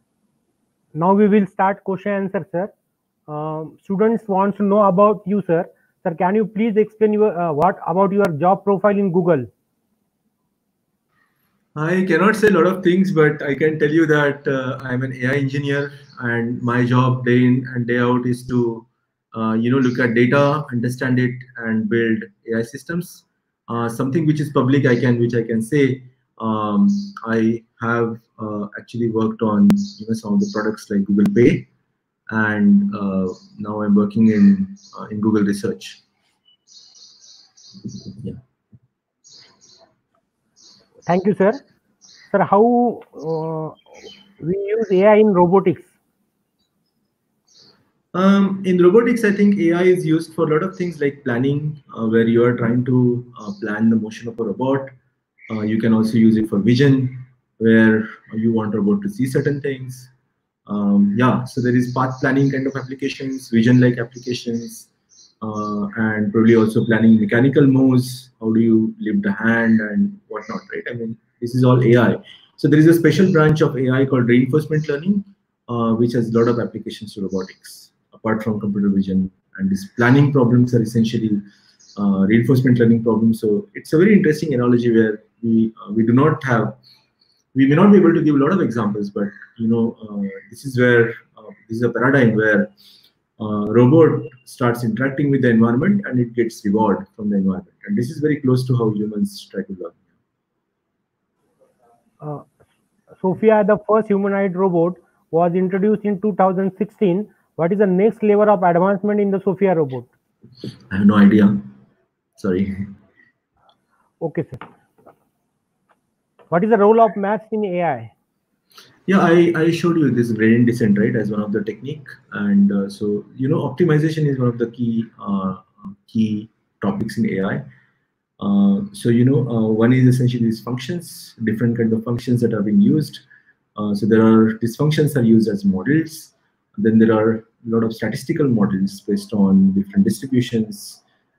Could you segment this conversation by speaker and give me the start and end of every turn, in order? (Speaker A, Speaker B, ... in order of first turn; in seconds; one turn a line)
Speaker A: 0.9-2.7
Speaker A: 3.3-9.5
Speaker B: 11.7-31.7
Speaker B: 32.3-36.0
Speaker A: 41.1-41.6
Speaker A: 42.3-43.8
Speaker A: 44.4-45.9
Speaker B: 48.1-54.9
Speaker B: 55.5-60.1
Speaker B: 60.7-64.9
Speaker B: 65.4-81.4
Speaker B: 81.9-86.8
Speaker B: 87.5-92.7
Speaker B: 93.4-100.0
Speaker A: 102.2-102.5
Speaker A: 103.2-110.1
Speaker B: 110.9-111.7
Speaker B: 112.4-112.9
Speaker A: 114.2-114.6
Speaker A: 116.5-118.1
Speaker B: 119.1-127.7
Speaker B: 128.4-133.2
Speaker B: 133.8-141.0